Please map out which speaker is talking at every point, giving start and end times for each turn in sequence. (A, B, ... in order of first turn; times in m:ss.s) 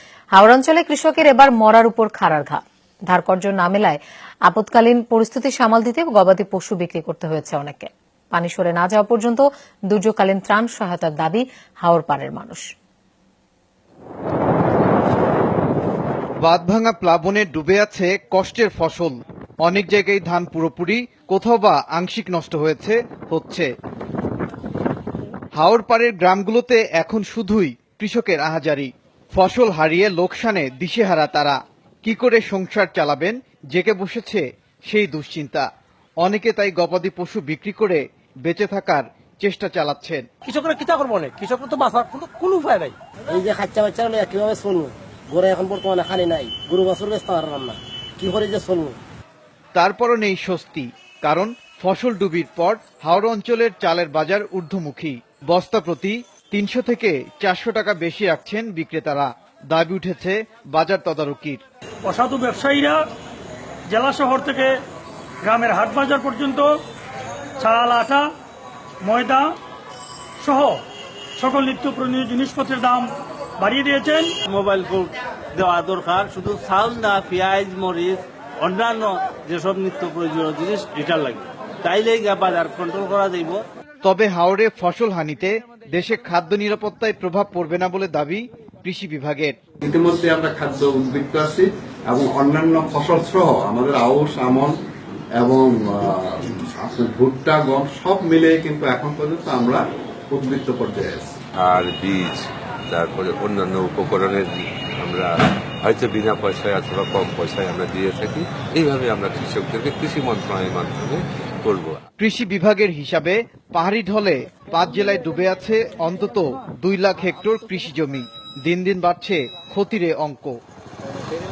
0:00.3-0:12.6 A
0:16.4-0:23.7 B
0:25.5-0:35.7 B
0:36.2-0:40.2 B
0:40.4-0:42.9 C
0:43.3-0:49.0 D
0:49.7-1:01.6 B
1:02.0-1:03.0 E
1:03.9-1:04.8 E
1:05.4-1:06.7 E
1:07.6-1:08.3 E
1:09.0-1:09.5 E
1:10.4-1:10.8 E
1:11.4-1:14.3 E
1:14.5-1:23.6 F
1:24.0-1:29.6 B
1:29.8-1:34.8 G
1:35.4-1:41.3 G
1:41.6-1:52.0 H
1:52.2-2:00.6 B